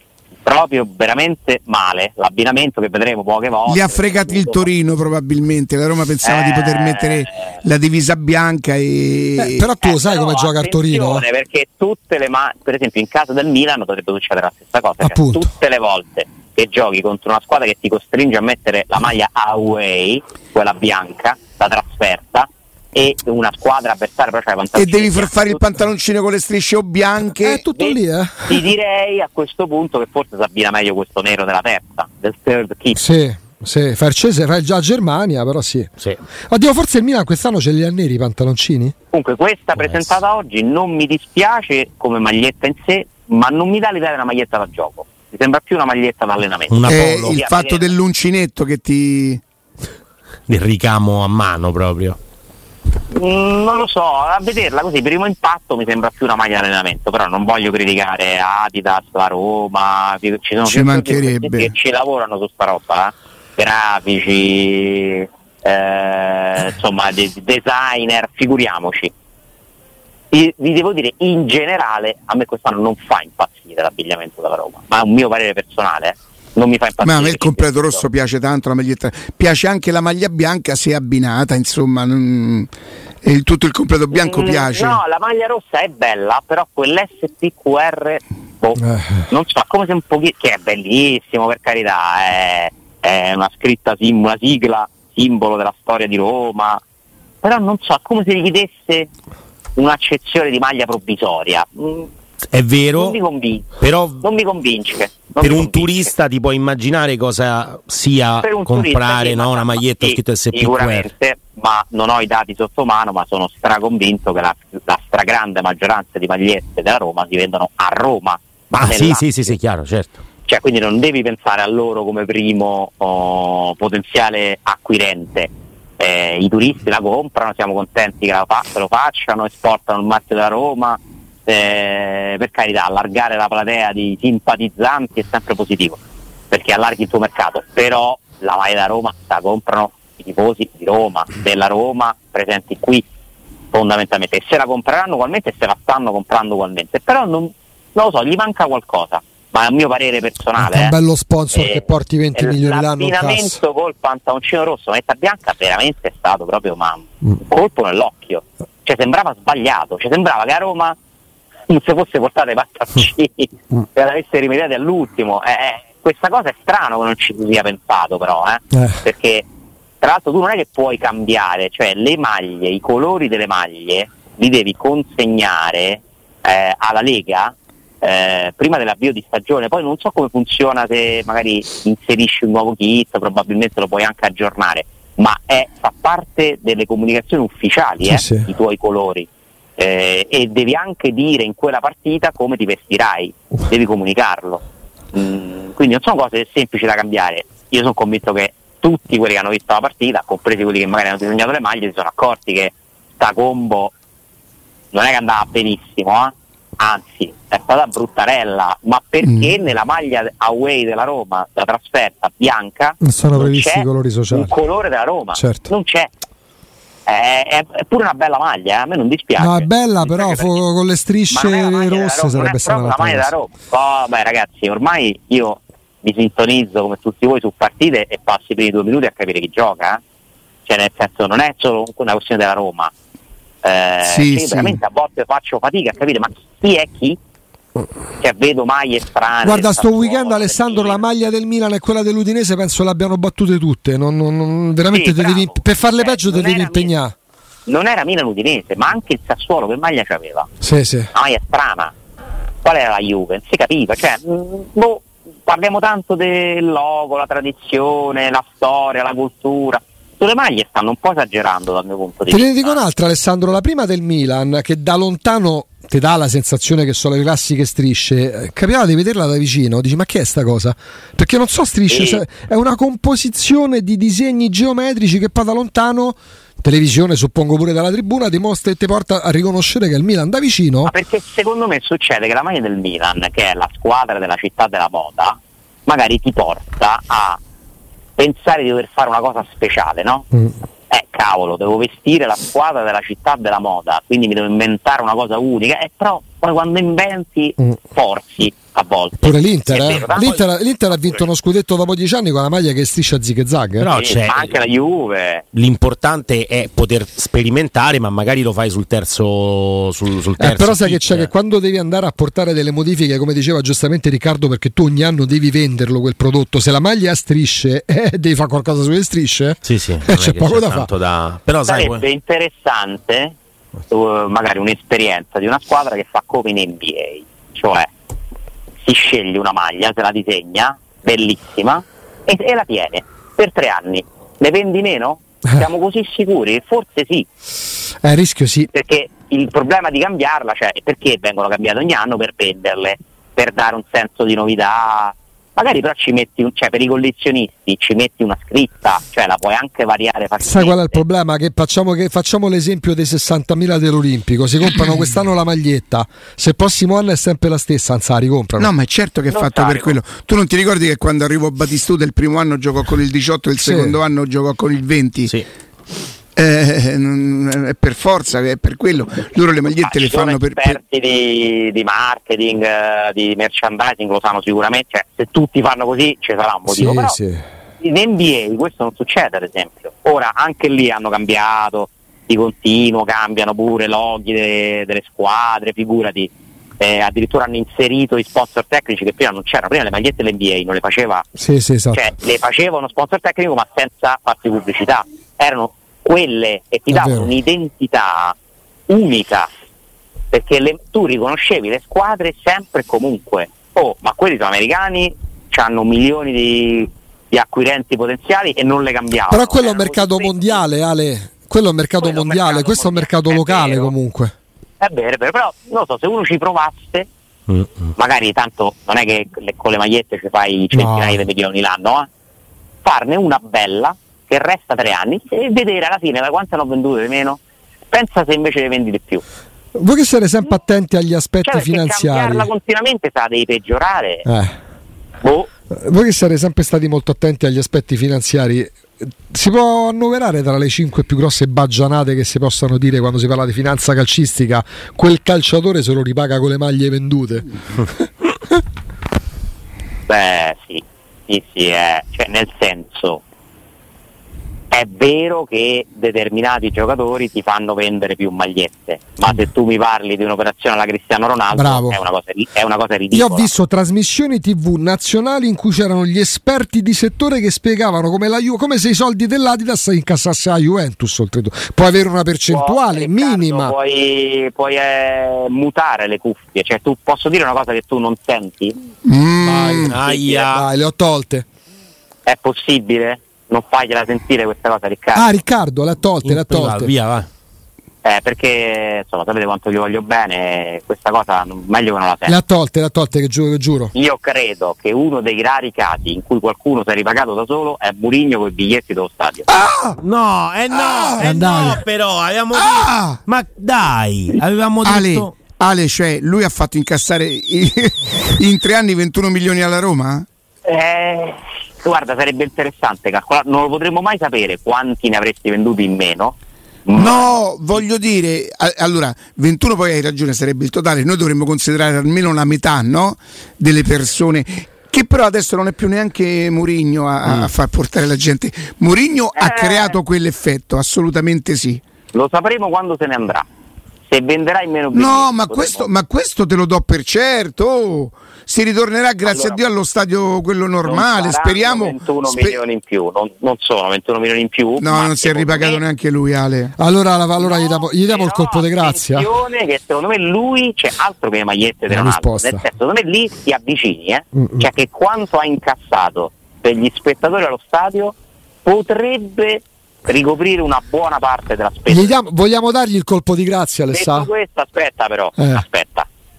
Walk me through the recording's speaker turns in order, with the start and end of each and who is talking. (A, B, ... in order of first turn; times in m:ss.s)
0:00.4-0:04.7 A
0:03.6-0:09.7 B
0:06.2-0:07.5 A
0:09.4-0:11.2 C
0:09.8-0:25.6 A
0:15.0-0:15.5 C
0:24.7-0:27.6 B
0:27.4-0:28.6 C
0:27.7-0:33.0 A
0:32.9-0:35.9 C
0:36.5-0:38.9 C
0:39.1-0:47.9 A
0:46.7-0:47.4 D
0:46.8-0:49.4 B
0:50.5-0:52.2 D
0:53.1-1:09.1 A
1:00.6-1:01.7 B
1:10.3-1:18.1 A
1:17.0-1:22.7 B
1:23.2-1:25.0 B
1:24.1-1:36.8 A
1:28.8-1:29.2 C
1:37.4-1:39.1 A
1:39.8-1:42.1 A
1:42.5-1:43.2 D
1:42.9-1:46.1 A
1:43.8-1:44.2 D
1:45.4-1:51.1 D
1:48.4-1:59.6 A
1:58.7-2:00.1 D
2:00.5-2:23.1 A
2:23.7-2:31.0 A
2:30.6-2:33.6 C
2:31.5-2:41.0 A
2:41.7-2:49.4 A
2:50.0-3:14.6 A
3:08.0-3:08.5 C
3:15.1-3:23.9 A
3:24.9-3:36.1 A
3:29.2-3:29.5 B
3:33.0-3:34.5 C
3:35.4-3:35.7 C
3:37.1-3:40.6 A
3:39.4-3:43.3 C
3:41.3-3:50.0 A
3:50.6-3:52.9 A
3:53.6-3:57.2 A
3:54.0-3:54.8 B
3:58.2-4:01.0 A
3:59.4-4:07.1 C
4:04.9-4:06.9 A
4:07.7-4:10.5 A
4:10.6-4:11.1 C
4:11.1-4:11.9 A
4:12.6-4:22.8 A
4:22.3-4:40.9 C
4:31.9-4:32.2 A
4:40.8-4:47.4 A
4:48.2-4:50.3 A
4:50.9-5:00.4 A
4:59.2-5:03.9 C
5:00.2-5:00.4 D
5:03.8-5:04.6 D
5:03.9-5:05.4 A
5:05.5-5:11.3 D
5:10.4-5:20.9 C
5:19.6-5:22.0 D
5:21.6-5:23.3 A
5:23.9-5:27.9 A
5:28.8-5:37.3 A
5:38.0-5:38.7 C
5:38.7-5:51.0 A
5:50.4-5:58.7 C
5:58.6-6:05.3 B
5:59.3-6:00.0 A
6:03.6-6:04.0 C
6:06.4-6:10.8 B
6:09.7-6:17.2 A
6:16.7-6:17.4 C
6:17.8-6:31.2 A
6:31.4-6:32.0 C
6:31.9-6:38.3 A
6:36.9-6:37.3 C
6:38.9-6:39.5 A
6:40.3-6:50.6 A
6:49.3-6:54.3 C
6:52.0-6:53.9 A
6:54.8-6:57.1 A
6:57.5-6:57.9 D
6:58.0-7:02.1 A
7:00.7-7:01.2 C
7:02.8-7:09.2 A
7:09.7-7:12.5 C
7:11.4-7:14.2 A
7:14.2-7:14.6 C
7:15.2-7:15.5 A
7:15.7-7:27.5 C
7:30.1-7:33.2 A
7:34.7-7:43.5 A
7:41.5-7:42.0 C
7:43.1-7:53.7 C
7:52.5-7:58.8 A
7:59.0-8:00.0 B
7:59.4-8:00.7 D
8:00.0-8:00.5 A
8:00.5-8:01.4 C
8:02.2-8:05.4 A
8:05.1-8:06.9 C
8:06.2-8:07.3 D
8:08.0-8:12.4 A
8:12.3-8:13.9 C
8:13.9-8:19.5 A
8:19.5-8:20.0 B
8:20.0-8:25.3 D
8:20.7-8:21.8 B
8:21.2-8:21.7 C
8:22.5-8:23.2 B
8:24.8-8:30.2 B
8:30.6-8:37.4 A
8:36.9-8:51.8 B
8:47.2-8:47.5 D
8:49.4-8:50.0 A
8:52.1-8:53.4 A
8:54.1-8:55.9 A
8:54.9-9:02.6 B
8:59.3-8:59.6 A
9:00.8-9:05.8 A
9:04.8-9:06.7 B
9:06.8-9:09.3 C
9:07.4-9:22.1 A
9:11.9-9:12.6 C
9:14.4-9:14.7 C
9:21.9-9:24.3 C
9:23.9-9:26.1 A
9:25.4-9:25.6 C